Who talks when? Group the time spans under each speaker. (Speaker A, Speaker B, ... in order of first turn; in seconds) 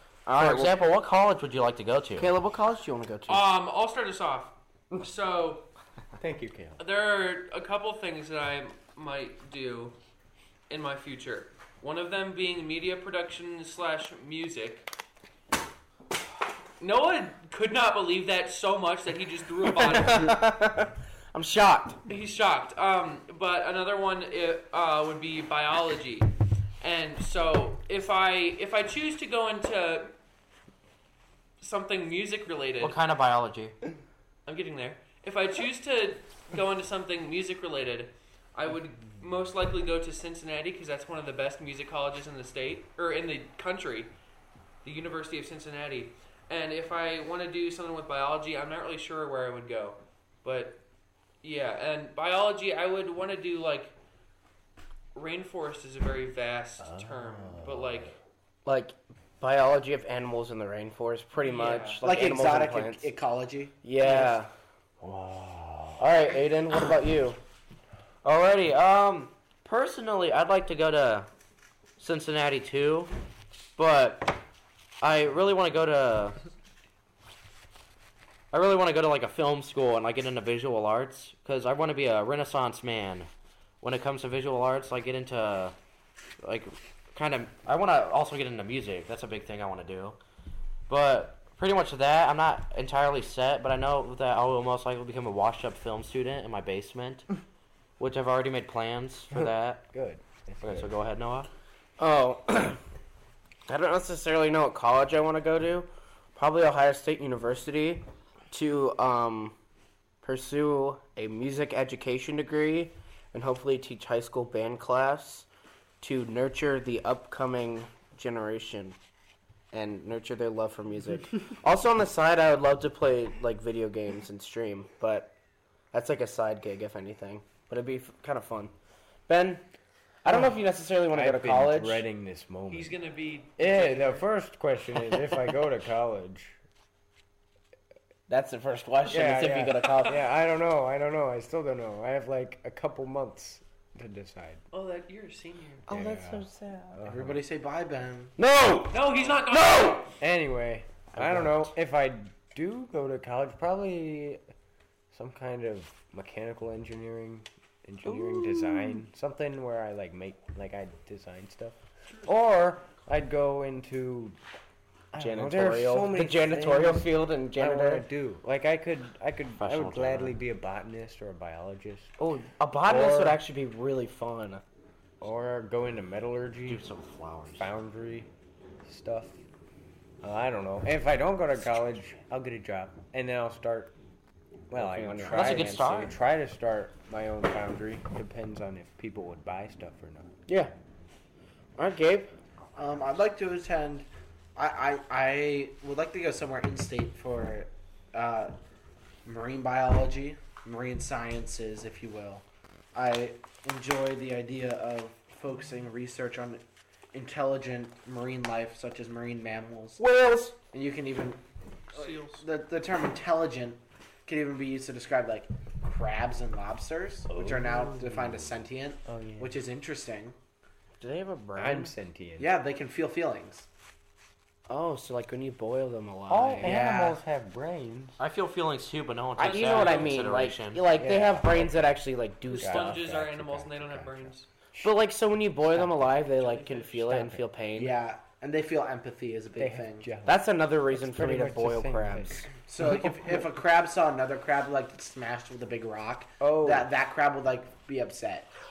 Speaker A: 0.3-1.0, 2.2-3.5, 19.8-22.0, 58.6-63.1, 63.8-64.5, 66.0-67.4, 102.0-102.8, 103.7-109.5, 110.2-115.5, 116.0-119.0, 119.7-125.3, 125.9-128.7, 129.3-129.6, 130.2-132.1, 138.3-140.2, 145.9-147.0, 148.4-149.0, 149.5-150.0, 158.1-159.0, 165.2-168.1, 172.2-174.6, 184.7-185.9, 190.5-190.7, 191.8-192.3, 210.0-210.6, 221.0-221.9, 224.7-226.8, 229.4-233.4, 234.8-238.0, 240.3-242.5
Speaker B: 0.3-2.3, 32.8-33.8, 68.2-71.3, 72.0-73.1, 73.8-74.4, 75.0-76.4, 78.5-83.3, 83.8-85.8, 86.4-90.2, 90.9-97.3, 98.0-99.8, 100.6-101.5, 169.6-170.4, 176.7-177.7, 185.3-186.1, 228.2-230.8
Speaker C: 3.3-5.7, 6.8-10.0, 10.7-14.9, 16.8-20.4, 22.1-26.3, 26.8-30.1, 31.6-33.0, 34.5-44.1, 44.8-50.8, 51.4-53.9, 55.1-58.2, 61.4-62.0, 132.7-134.2, 139.8-140.2, 144.7-145.8, 148.9-150.1, 211.9-212.4, 229.4-230.2, 232.5-234.5, 236.4-236.9
Speaker D: 6.2-6.8, 56.8-58.1, 65.0-66.1, 99.3-101.0, 130.3-133.0, 133.6-136.6, 139.1-144.6, 145.9-147.4, 150.2-154.4, 155.1-164.4, 165.1-172.1, 172.9-173.4, 175.2-176.8, 177.6-178.3, 178.8-179.4, 180.2-183.9, 184.7-190.3, 217.3-219.6, 221.6-222.5, 226.3-228.2, 230.9-231.9, 232.5-234.9, 235.7-236.2, 237.0-237.4, 239.6-243.4, 246.4-246.9
Speaker E: 62.0-63.8, 147.1-148.4, 192.8-198.5, 199.2-206.6, 207.1-210.0, 210.7-211.4, 211.9-220.3, 222.4-223.7, 226.6-227.2, 237.8-240.1, 242.7-248.5